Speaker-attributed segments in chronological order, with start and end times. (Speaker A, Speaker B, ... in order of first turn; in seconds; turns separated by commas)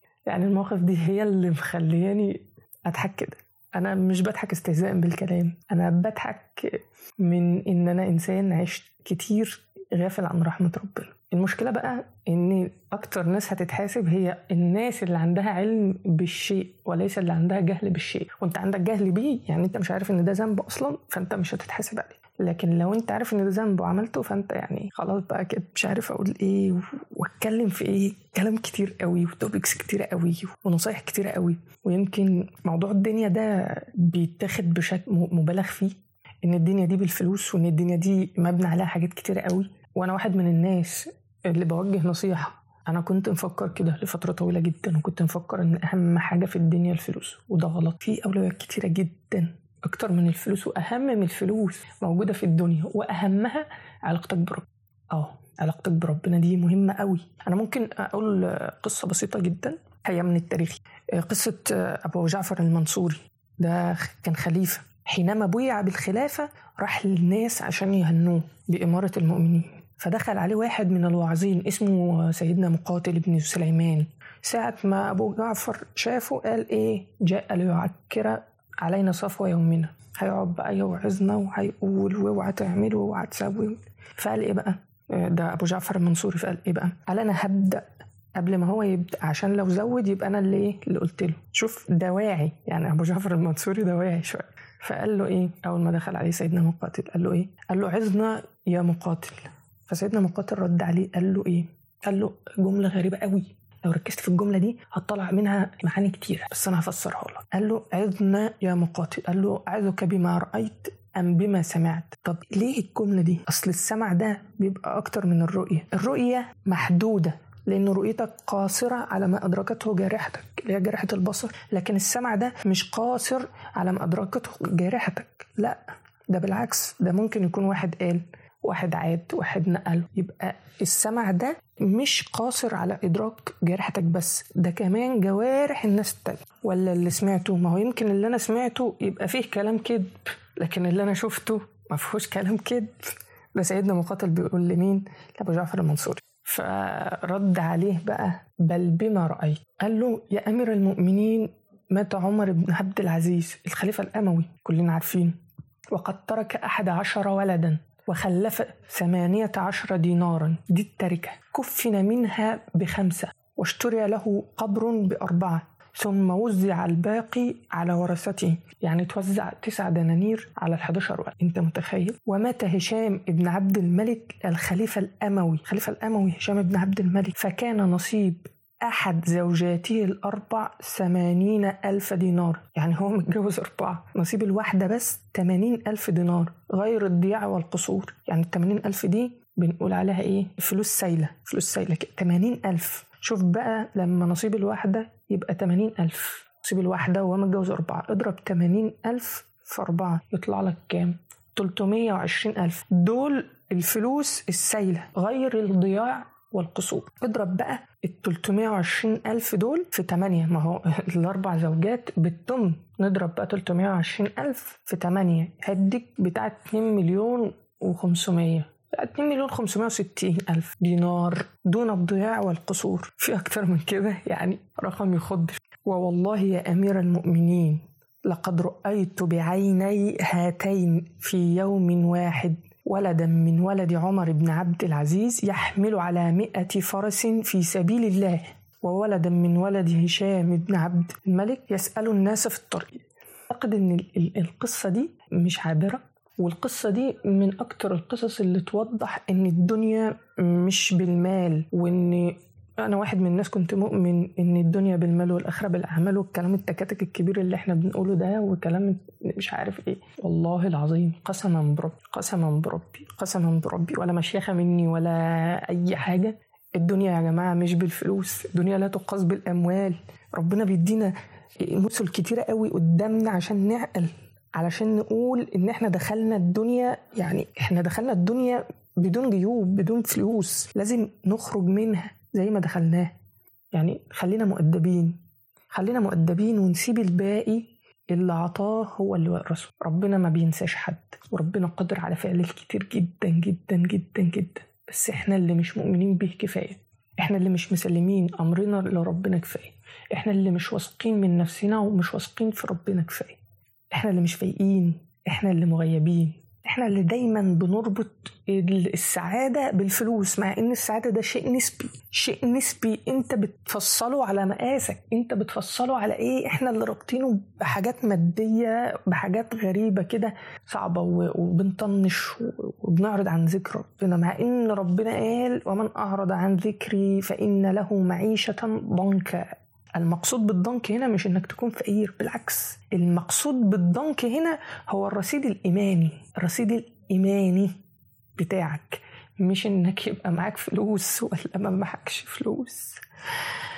Speaker A: 0.3-87.8, Speaker A: 88.4-155.4, Speaker A: 155.9-283.1, Speaker A: 283.7-285.2, Speaker A: 285.7-303.4, Speaker A: 303.9-337.7, Speaker A: 338.4-343.0